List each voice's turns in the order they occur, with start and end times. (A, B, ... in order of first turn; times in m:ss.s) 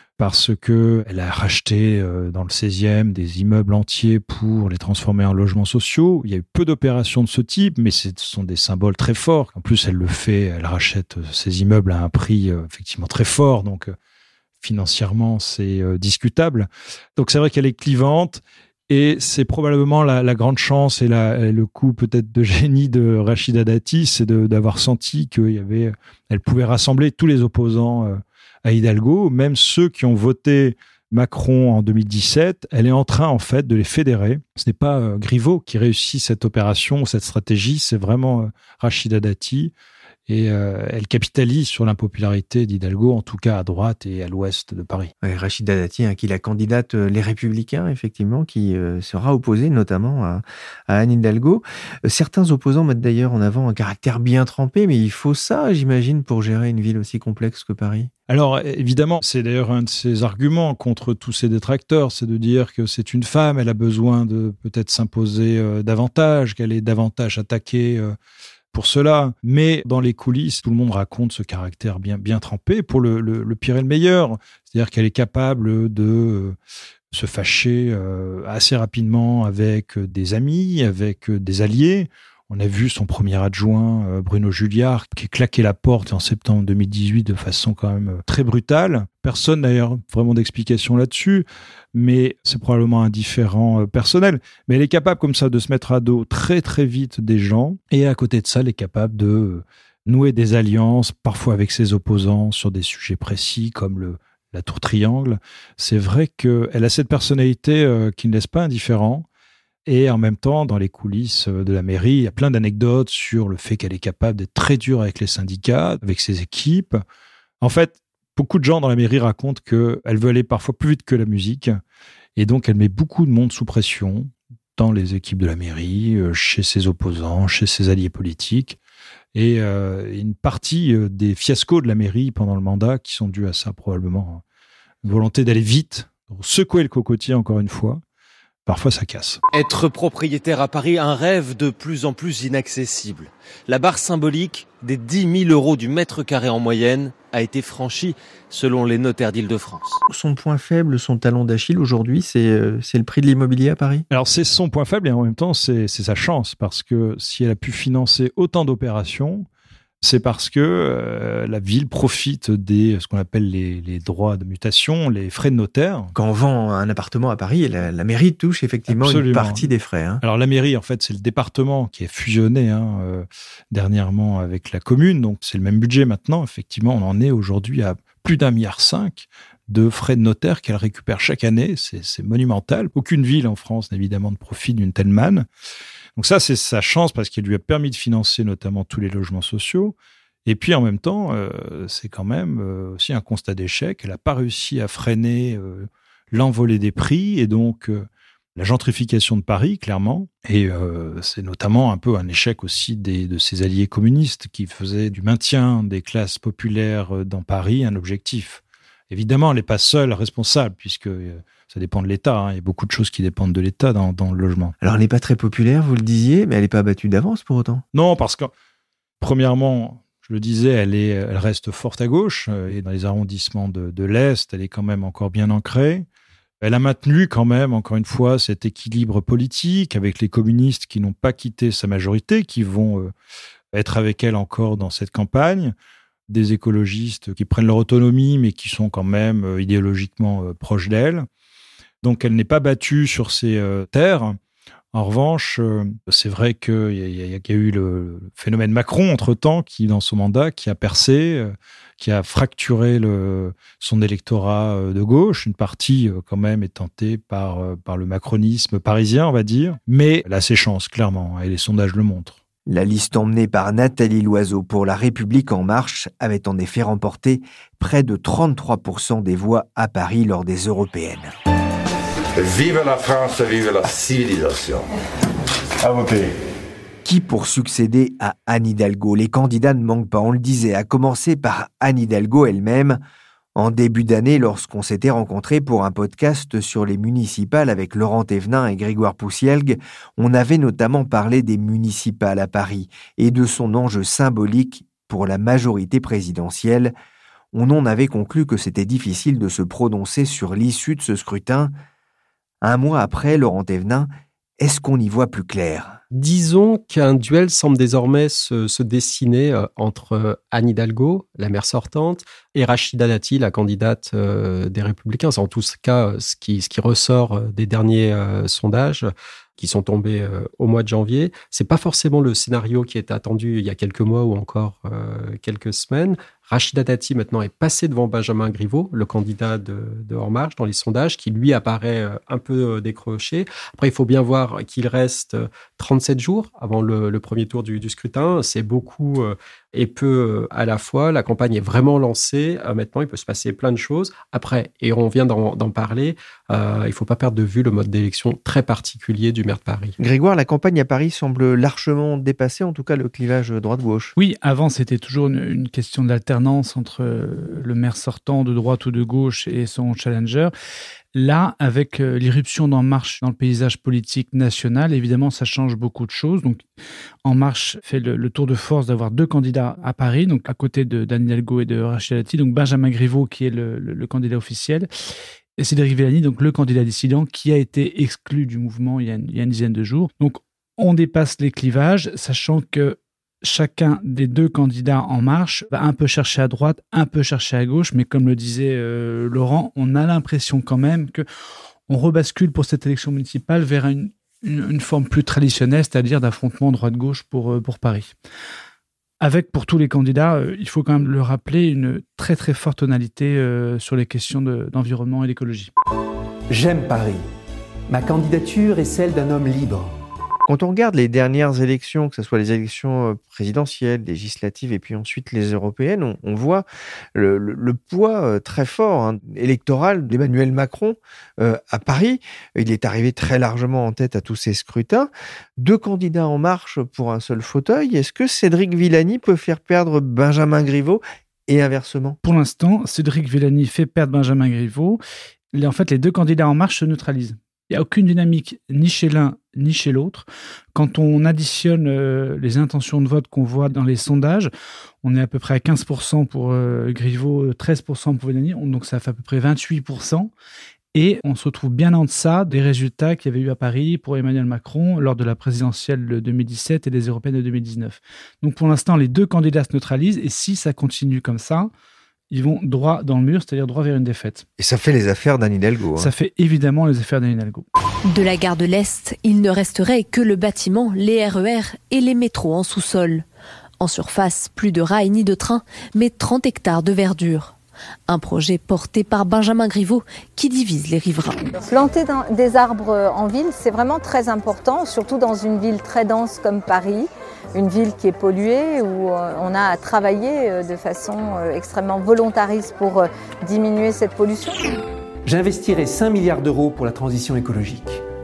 0:00.2-0:13.9 A
0:14.6-0:39.7 A
0:40.3-0:45.1 A
0:45.2-0:58.1 B
0:58.3-1:08.1 A
1:08.7-1:16.6 A
1:17.1-1:49.2 A
1:49.8-1:57.0 A
1:57.6-2:01.8 A
2:02.4-2:08.8 A
2:09.3-2:14.4 A
2:15.0-2:18.0 A
2:18.6-2:19.4 A
2:19.5-2:30.0 C
2:30.1-2:34.0 B
2:34.1-2:39.4 A
2:40.0-2:46.1 A
2:46.1-2:50.2 B
2:48.9-2:49.6 A
2:50.2-3:05.4 A
3:06.2-3:34.7 A
3:34.8-3:37.8 B
3:37.9-3:38.5 A
3:39.2-3:46.0 A
3:46.6-3:53.1 A
3:53.7-3:55.7 A
3:56.3-4:01.3 A
4:02.0-4:04.4 A
4:04.9-4:22.4 A
4:22.7-4:31.3 B
4:32.4-4:34.9 D
4:35.8-4:36.3 D
4:37.0-4:43.0 B
4:43.6-4:56.9 B
4:57.5-5:01.7 B
5:02.6-5:06.0 B
5:06.1-5:50.0 E
5:50.0-5:54.1 B
5:54.2-6:00.5 F
6:01.1-6:06.6 F
6:07.2-6:14.9 F
6:15.6-6:31.2 F
6:31.9-6:38.1 F
6:39.2-6:45.7 F
6:46.5-6:47.2 G
6:47.9-6:49.9 G
6:50.4-7:12.2 B
7:12.2-7:15.0 F
7:15.5-7:24.5 F
7:25.0-7:30.3 F
7:30.9-7:41.7 F
7:42.3-7:44.4 F
7:44.6-7:46.1 B
7:46.0-7:47.6 F
7:48.1-7:53.2 H
7:53.8-7:57.6 H
7:58.1-8:01.5 H
8:01.6-8:14.7 I
8:15.2-8:18.0 G